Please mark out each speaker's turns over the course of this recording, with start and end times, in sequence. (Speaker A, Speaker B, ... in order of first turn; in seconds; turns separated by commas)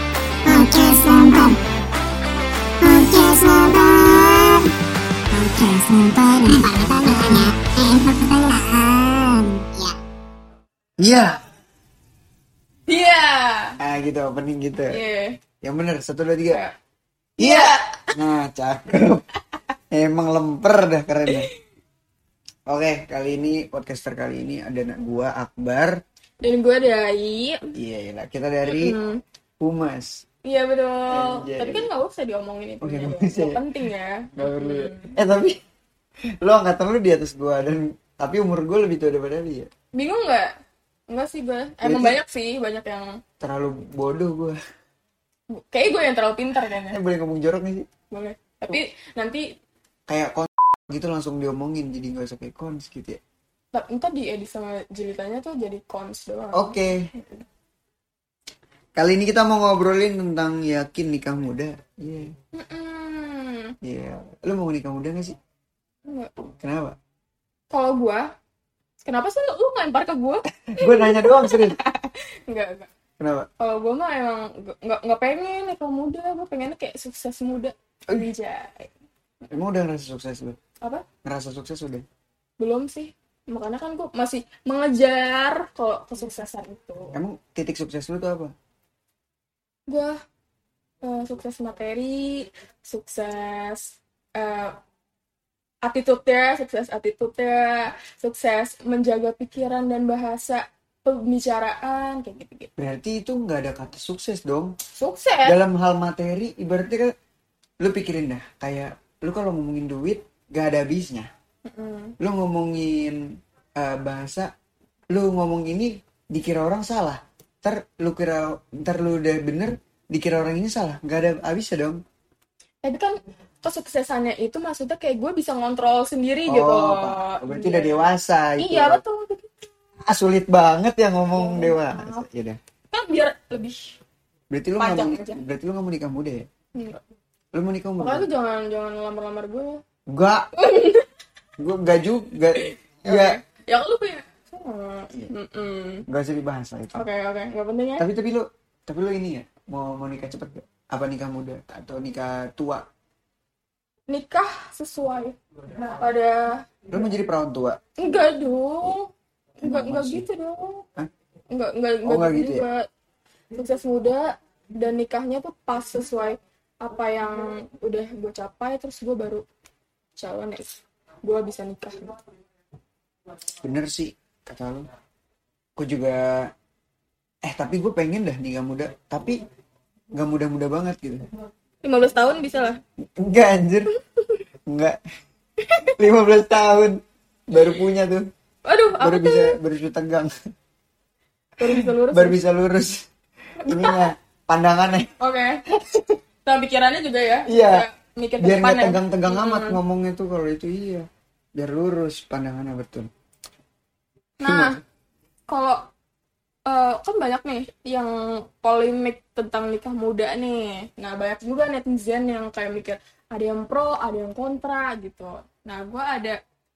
Speaker A: 0.5-1.6, Speaker A: 2.8-4.7, Speaker A: 5.3-10.0, Speaker B: 11.0-11.4, Speaker C: 12.9-13.8, Speaker B: 13.8-15.0, Speaker C: 14.9-15.4, Speaker B: 15.6-16.6, Speaker B: 17.4-19.2, Speaker C: 17.4-18.1, Speaker B: 19.9-21.5, Speaker B: 22.7-26.0, Speaker C: 26.4-27.8, Speaker B: 27.8-28.9, Speaker C: 28.7-29.2, Speaker B: 29.6-30.2, Speaker C: 30.4-35.2, Speaker B: 31.1-31.9, Speaker B: 32.8-33.6, Speaker B: 34.4-35.6, Speaker B: 36.4-39.7, Speaker C: 39.9-40.5, Speaker C: 41.1-43.2, Speaker B: 41.8-42.2, Speaker B: 43.4-44.6, Speaker C: 45.5-47.0, Speaker B: 46.9-47.9, Speaker C: 48.1-49.5, Speaker B: 50.1-53.2, Speaker C: 53.7-57.4, Speaker B: 56.5-57.1, Speaker B: 59.0-62.3, Speaker C: 62.5-63.8, Speaker B: 63.8-65.4, Speaker C: 66.1-66.4, Speaker B: 66.6-67.0, Speaker C: 67.7-68.3, Speaker C: 69.0-72.9, Speaker B: 70.7-71.8, Speaker B: 73.2-73.5, Speaker C: 73.6-78.9, Speaker B: 79.5-80.6, Speaker B: 81.2-82.0, Speaker C: 82.6-87.2, Speaker B: 87.1-88.5, Speaker C: 89.9-90.2, Speaker C: 91.0-94.8, Speaker C: 95.8-102.7, Speaker B: 102.8-104.8, Speaker C: 105.0-105.6, Speaker B: 105.5-107.1, Speaker B: 107.8-111.3, Speaker C: 111.7-112.2, Speaker B: 112.2-114.5, Speaker B: 115.1-122.0, Speaker C: 122.8-129.6, Speaker B: 126.5-129.0, Speaker B: 130.1-132.6, Speaker C: 131.3-132.2, Speaker C: 132.9-134.0, Speaker B: 134.5-136.5, Speaker C: 134.8-135.4, Speaker C: 136.7-137.0, Speaker B: 137.5-138.3, Speaker C: 138.0-139.8, Speaker B: 140.1-140.5, Speaker C: 140.6-141.1, Speaker B: 141.6-143.4, Speaker C: 142.6-146.1, Speaker B: 146.1-147.1, Speaker C: 146.9-148.1, Speaker B: 148.0-152.9, Speaker C: 154.1-156.7, Speaker B: 156.9-157.8, Speaker C: 158.0-160.9, Speaker B: 159.6-160.3, Speaker C: 161.5-162.9, Speaker B: 162.1-162.6, Speaker C: 163.5-169.4, Speaker C: 170.2-172.2, Speaker B: 173.6-174.9, Speaker B: 175.8-176.5, Speaker B: 177.4-179.4, Speaker B: 180.1-181.3, Speaker C: 181.8-182.8, Speaker B: 183.0-183.9, Speaker C: 183.9-184.4, Speaker B: 184.7-185.0, Speaker C: 185.6-186.0, Speaker B: 185.9-188.3, Speaker C: 188.7-189.6, Speaker B: 189.0-190.3, Speaker C: 191.6-192.4, Speaker B: 191.6-193.1, Speaker C: 193.6-194.1, Speaker B: 193.6-195.1, Speaker C: 195.2-195.7, Speaker C: 196.4-199.8, Speaker B: 197.5-197.9, Speaker B: 198.4-203.1, Speaker C: 204.4-204.8, Speaker B: 204.4-204.8, Speaker C: 205.5-205.9, Speaker C: 206.7-216.4